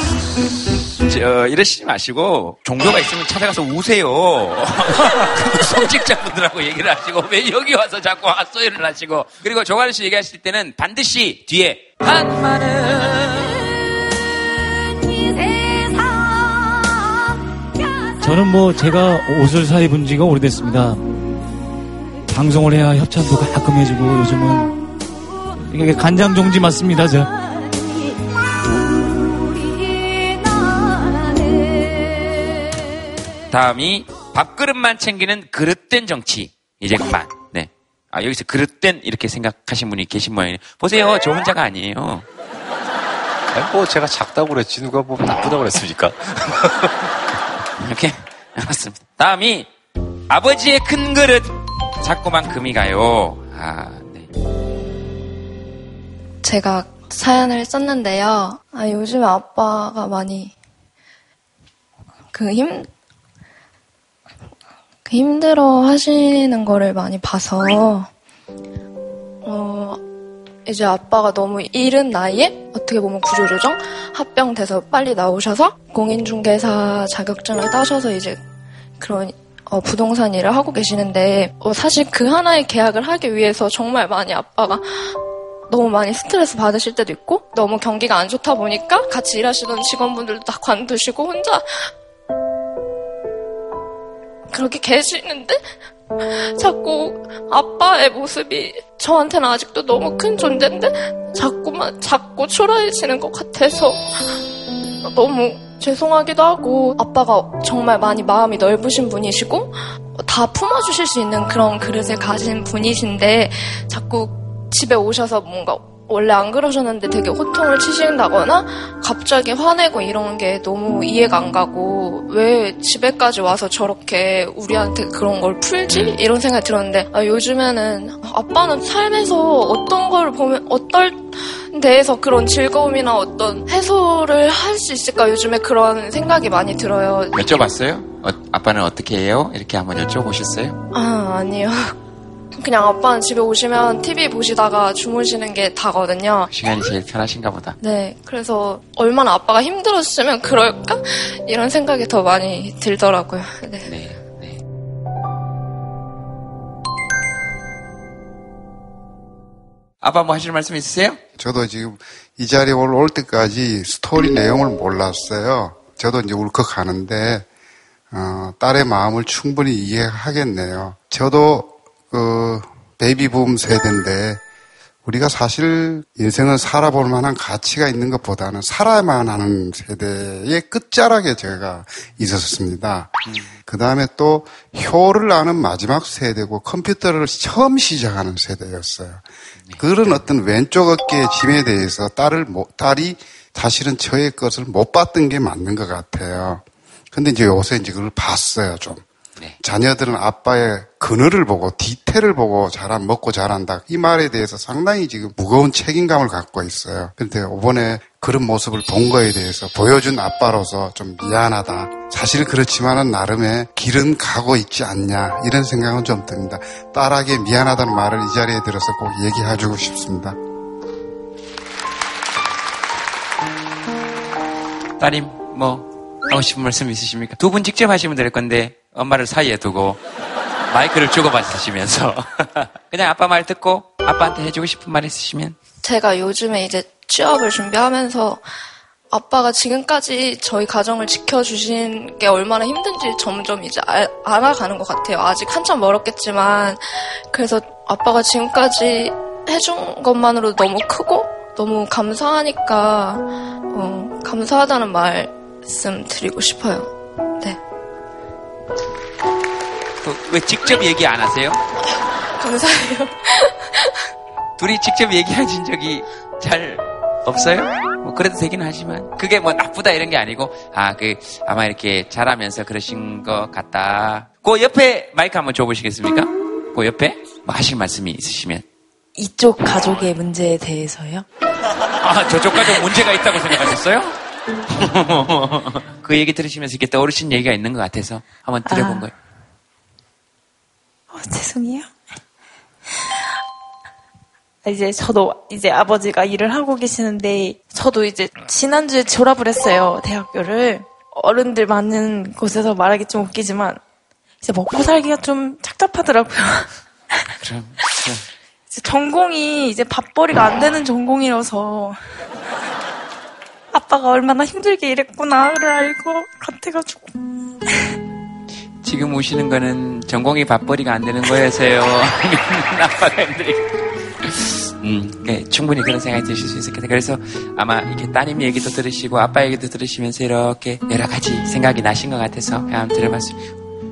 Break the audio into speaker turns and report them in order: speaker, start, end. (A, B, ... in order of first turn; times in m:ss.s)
0:01.0-0:13.7 A
0:18.2-0:21.1 B
0:22.3-0:24.8 B
0:25.6-0:27.3 B
0:33.5-0:42.3 A
0:43.5-0:46.9 C
0:47.8-0:49.7 A
0:50.3-0:54.3 A
0:56.4-1:00.5 D
1:02.3-1:02.9 D
1:05.1-1:08.1 D
1:09.4-1:10.0 D
1:10.7-1:18.4 D
1:19.0-1:25.2 D
1:25.7-1:31.9 D
1:34.5-1:35.6 D
1:36.2-1:44.4 D
1:45.0-2:17.4 D
2:17.3-2:20.8 A
2:20.9-2:22.0 D
2:22.6-2:26.5 D
2:26.5-2:27.8 A
2:27.8-2:33.9 D
2:33.8-2:34.6 A
2:40.0-2:41.2 A
2:41.4-2:47.5 E
2:48.1-2:54.4 E
2:55.0-3:09.2 E
3:09.8-3:19.0 E
3:19.6-3:40.4 E
3:45.0-3:50.0 A
3:50.7-3:55.6 A
3:55.8-3:58.4 D
3:59.1-4:16.9 D
4:20.0-4:21.6 A
4:24.6-4:38.6 A
4:39.2-4:41.3 F
4:42.0-4:44.2 A
4:44.8-4:49.1 A
4:48.7-4:49.1 F
4:51.1-4:51.9 F
4:54.6-5:03.8 F
5:04.4-5:06.7 F
5:07.4-5:08.2 A
5:08.7-5:12.0 F
5:13.7-5:17.0 F
5:18.8-5:23.6 A
5:24.2-5:33.5 A